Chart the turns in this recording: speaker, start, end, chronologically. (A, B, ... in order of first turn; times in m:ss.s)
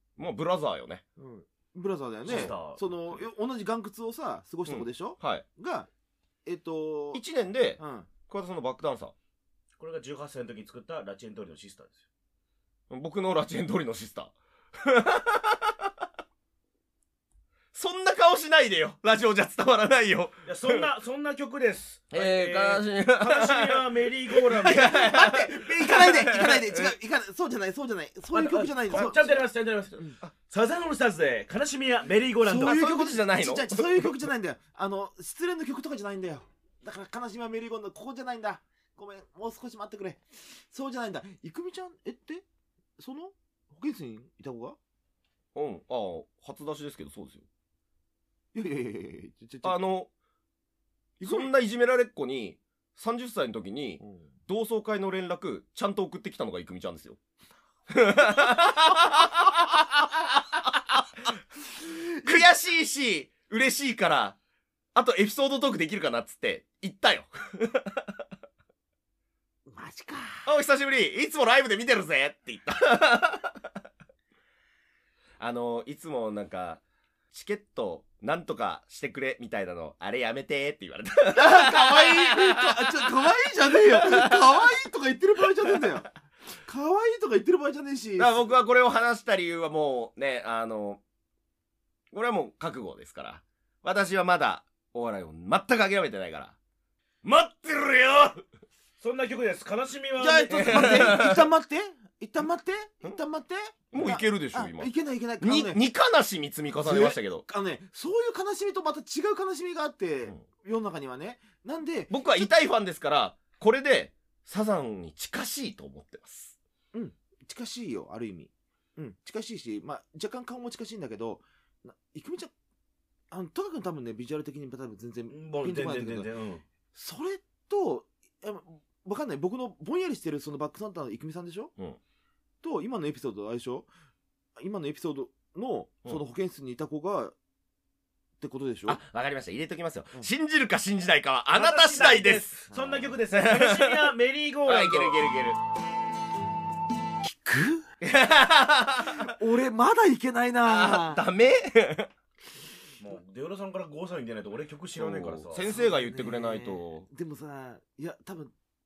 0:00.2-0:01.0 A
0:01.2-0:05.9 B
0:02.2-0:03.2 C
0:02.3-0:02.5 A
0:04.7-0:05.4 A
0:06.4-0:07.2 B
0:07.1-0:09.1 A
0:07.8-0:08.1 B
0:09.8-0:12.0 C
0:12.9-0:15.9 A
0:17.7-0:20.9 A
0:20.4-0:25.3 C
0:22.1-0:27.0 A
0:24.5-0:29.4 B
0:28.3-0:29.9 C
0:28.9-0:29.3 A
0:30.5-0:32.8 C
0:32.4-0:42.4 B
0:32.6-0:34.1 A
0:43.0-0:44.8 B
0:45.5-0:47.4 A
0:48.5-0:49.9 B
0:49.6-0:50.1 A
0:51.2-0:51.5 B
0:51.2-0:57.2 A
0:54.0-0:54.3 B
0:57.9-0:59.8 A
1:01.8-1:02.4 B
1:02.2-1:04.4 A
1:04.9-1:08.1 A
1:09.7-1:10.5 B
1:10.4-1:13.6 A
1:15.4-1:22.6 A
1:21.3-1:26.1 B
1:23.2-1:24.6 A
1:25.7-1:26.0 A
1:26.6-1:28.5 B
1:28.2-1:31.0 A
1:32.1-1:36.6 A
1:37.2-1:38.4 A
1:39.0-1:41.1 C
1:40.2-1:45.8 B
1:40.5-1:41.5 A
1:43.9-1:47.5 A
1:46.8-1:52.5 B
1:52.1-1:56.6 A
1:56.9-2:02.5 B
2:03.3-2:06.3 B
2:05.3-2:06.6 C
2:06.9-2:11.7 B
2:12.6-2:13.9 B
2:14.6-2:17.3 B
2:18.4-2:19.0 B
2:18.8-2:22.6 A
2:21.5-2:25.2 C
2:22.7-2:23.1 B
2:23.3-2:24.1 A
2:24.6-2:25.6 A
2:27.2-2:27.8 B
2:28.0-2:29.3 A
2:29.1-2:31.2 B
2:30.6-2:32.1 A
2:33.0-2:35.6 C
2:34.9-2:37.1 A
2:35.6-2:38.5 B